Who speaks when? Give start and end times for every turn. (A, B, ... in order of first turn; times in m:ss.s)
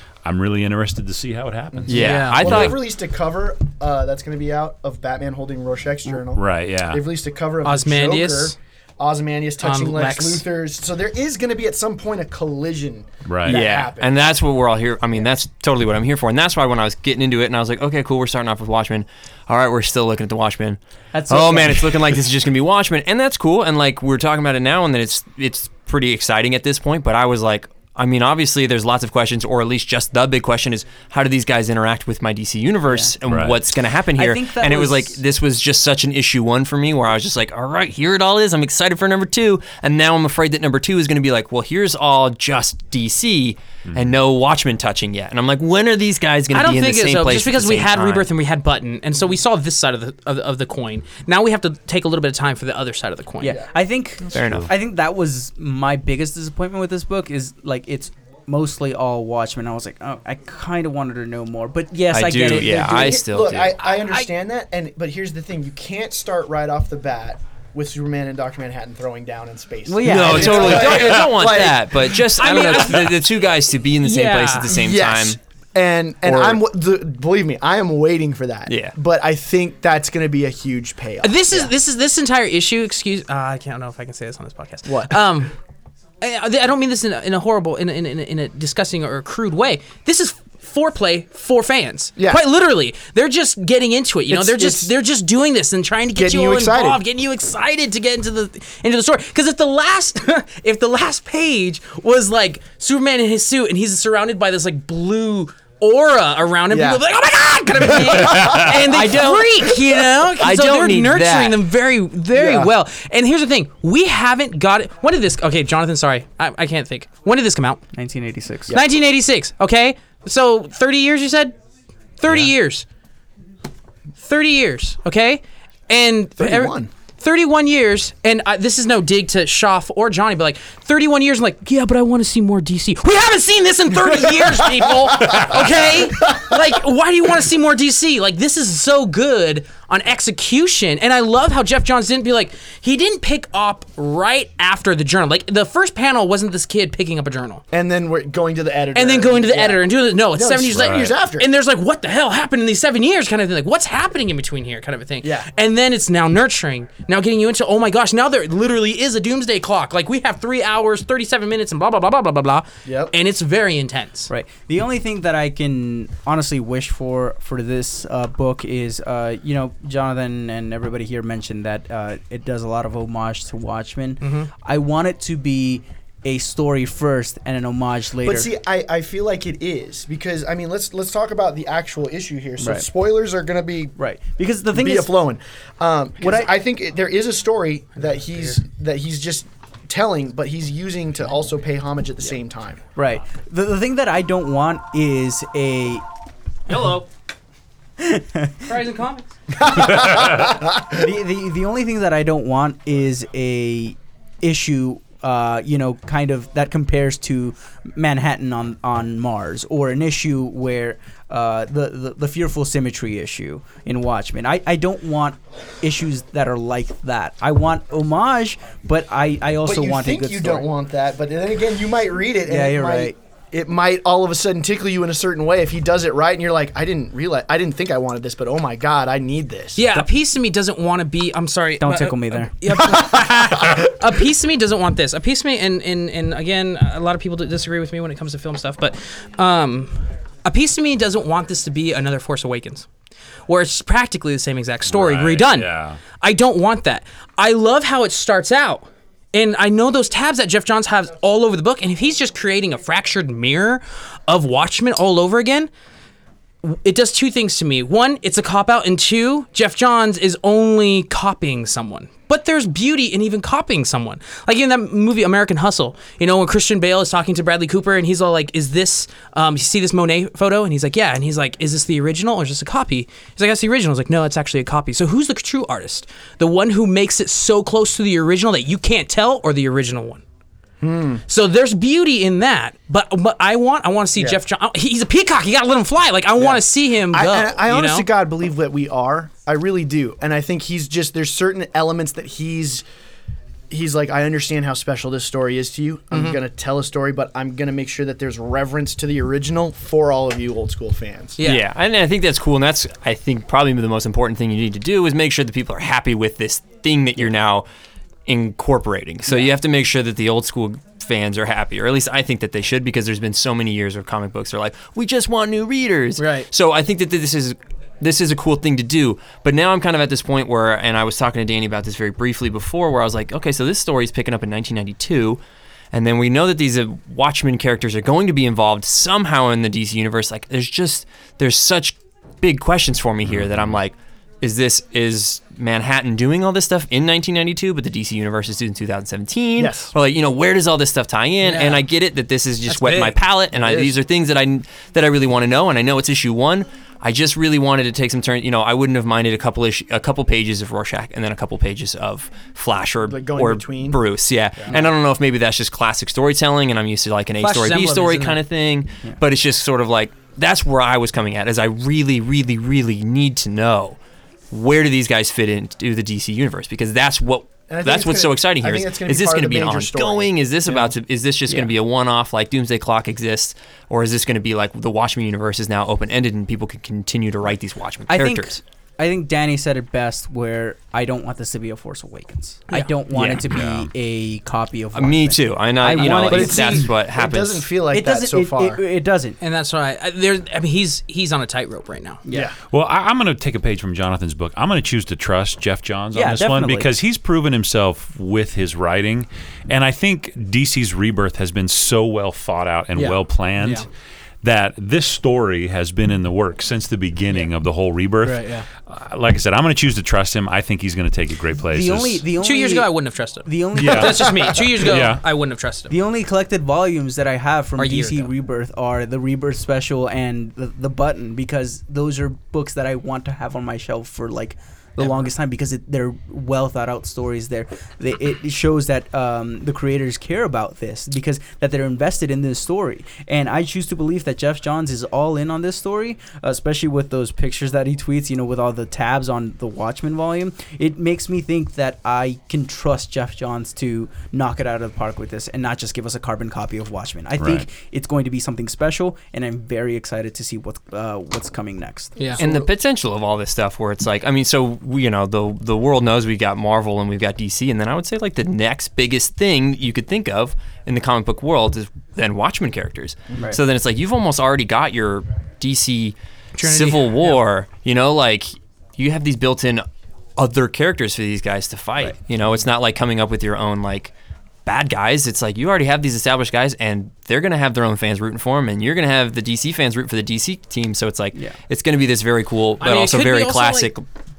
0:00.2-0:02.6 A
0:01.7-0:14.2 B
0:01.9-0:02.8 C
0:01.9-0:02.7 D
0:06.4-0:07.0 A
0:07.6-0:08.6 D
0:09.6-0:10.4 D
0:13.3-0:13.6 A
0:13.4-0:48.3 C
0:21.1-0:22.1 E
0:33.2-0:33.6 A
0:34.2-0:35.2 E
0:46.5-0:53.6 D
0:53.4-1:03.2 E
0:54.3-0:54.7 C
1:02.1-1:03.8 C
1:02.5-1:12.1 B
1:04.0-1:04.3 D
1:09.9-1:11.1 E
1:10.0-1:15.4 C
1:12.1-1:13.3 D
1:14.0-1:14.7 D
1:14.6-1:21.7 B
1:16.2-1:16.6 C
1:18.7-1:19.0 C
1:21.2-1:25.5 D
1:24.9-1:25.2 B
1:26.2-1:57.8 D
1:32.2-1:32.4 B
1:34.3-1:34.9 B
1:36.1-1:37.0 B
1:46.7-1:47.0 B
1:48.1-1:48.9 B
1:48.7-1:51.6 C
1:52.3-1:52.7 B
1:57.9-1:58.8 E
1:58.7-2:01.6 D
2:02.2-2:02.9 D
2:04.2-2:27.6 D
2:06.4-2:06.9 B
2:14.7-2:15.7 B
2:16.2-2:16.6 B
2:27.7-2:31.5 B
2:29.0-2:44.3 D
2:30.8-2:31.1 A
2:35.2-2:35.5 B
2:42.8-2:43.1 B
2:44.3-2:58.5 E
2:54.2-2:54.5 D
2:58.2-3:03.9 B
3:02.6-3:02.9 E
3:04.0-3:05.1 E
3:04.7-3:12.8 B
3:06.2-3:06.5 E
3:13.0-3:16.0 E
3:16.7-3:17.1 D
3:18.0-3:18.7 E
3:18.6-3:19.3 D
3:19.6-3:21.0 B
3:20.0-3:40.7 E
3:39.6-3:49.9 B
3:42.5-3:43.2 E
3:49.8-4:02.9 D
3:51.8-3:52.7 E
3:52.8-3:53.8 B
4:03.5-4:15.7 D
4:04.9-4:06.0 A
4:16.6-4:40.2 D
4:40.8-4:41.2 B
4:41.3-4:48.1 D
4:46.4-4:52.8 B
4:53.7-5:01.4 B
4:56.1-4:56.4 D
5:01.4-5:01.6 D
5:01.4-5:07.6 C
5:08.3-5:25.4 C
5:16.2-5:16.5 D
5:25.9-6:04.0 C
5:33.3-5:33.7 A
5:39.6-5:39.9 B
5:41.4-5:41.8 D
5:42.7-5:43.1 D
5:43.5-5:43.9 B
5:53.0-5:54.0 B
5:57.4-5:58.4 D
6:04.5-6:18.6 C
6:07.7-6:10.9 B
6:18.1-6:26.9 E
6:23.1-6:23.4 C
6:23.1-6:23.9 A
6:24.9-6:27.7 C
6:25.9-6:28.8 B
6:27.9-6:29.4 E
6:29.4-6:32.2 D
6:32.2-6:32.5 E
6:32.3-6:32.6 B
6:32.6-6:43.9 A
6:36.1-6:36.9 E
6:43.0-6:43.9 D
6:44.4-6:52.3 A
6:48.2-6:48.6 D
6:51.7-6:52.9 E
6:52.4-6:55.9 D
6:53.4-6:55.0 E
6:53.8-6:55.2 A
6:55.9-7:32.6 E
6:57.8-6:58.3 D
7:27.3-7:27.7 A
7:32.2-7:32.4 D
7:32.4-7:49.9 C
7:46.6-7:47.4 D
7:50.4-7:54.1 C
7:54.6-8:04.1 C
8:02.8-8:03.9 D